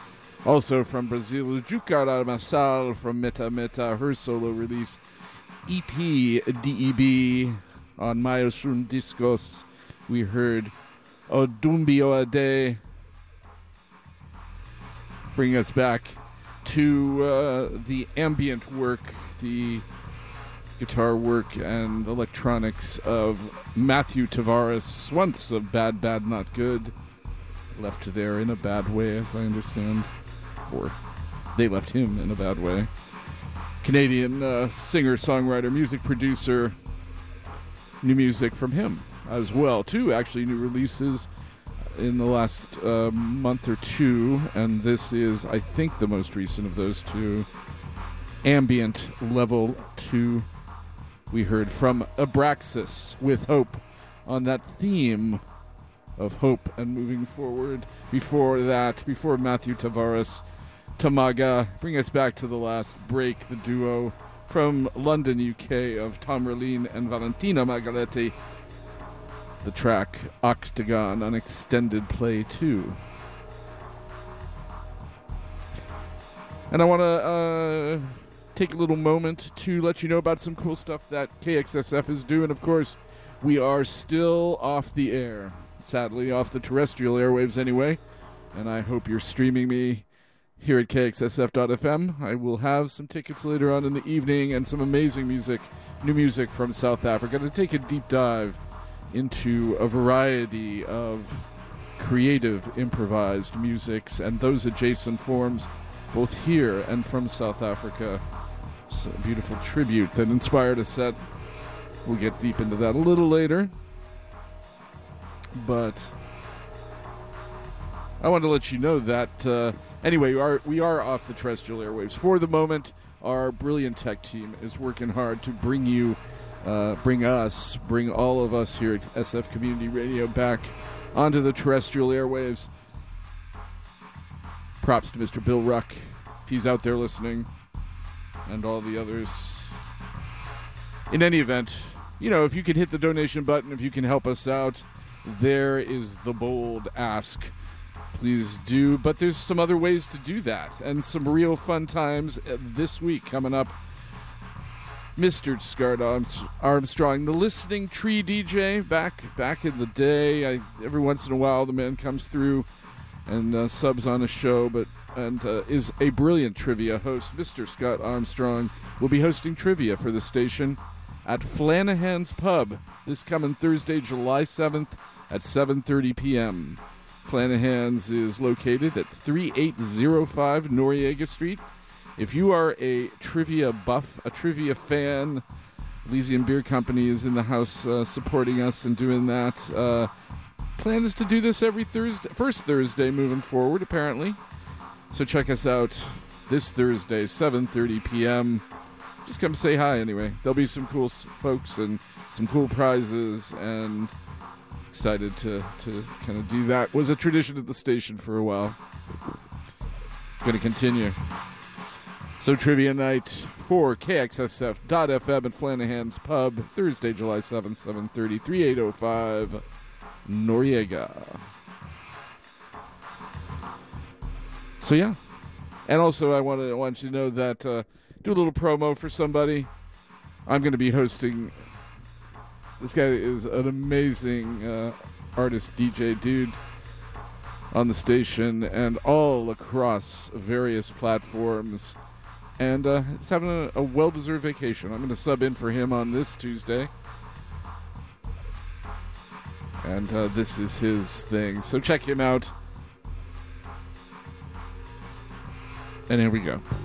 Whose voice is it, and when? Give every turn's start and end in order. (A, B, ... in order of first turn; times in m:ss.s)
0:00.4-0:05.0 A
0:05.6-0:10.7 A
0:11.3-0:12.8 A
0:15.3-0:19.8 A
0:20.8-0:26.9 A
0:27.7-0:30.1 A
0:30.7-0:31.0 A
0:31.5-0:32.9 A
0:33.8-0:36.7 A
0:38.0-0:41.3 A
0:41.9-0:47.5 A
0:48.4-0:50.5 A
0:51.3-0:55.4 A
0:56.2-1:00.4 A
1:01.0-1:08.3 A
1:09.6-1:13.0 A
1:16.7-1:28.0 A
1:28.5-1:30.0 A
1:30.6-1:38.6 A
1:39.1-1:41.4 A
1:42.0-1:48.2 A
1:48.9-1:51.2 A
1:52.0-1:53.7 A
1:55.5-1:56.1 A
1:58.2-2:12.7 A
2:14.8-2:17.5 A
2:18.4-2:19.7 A
2:21.1-2:27.5 A
2:28.2-2:33.8 A
2:35.2-2:42.7 A
2:43.3-3:01.6 A
3:02.2-3:05.4 A
3:06.0-3:10.1 A
3:10.8-3:14.4 A
3:15.1-3:18.6 A
3:19.2-3:24.1 A
3:24.9-3:28.8 A
3:30.4-3:31.2 A
3:32.4-3:39.6 A
3:40.2-3:41.4 A
3:44.8-3:45.2 A
3:45.9-3:49.7 A
3:50.4-3:51.5 A
3:52.8-3:56.6 A
3:57.7-4:02.0 A
4:02.6-4:06.9 A
4:09.8-4:12.5 A
4:16.1-4:16.6 A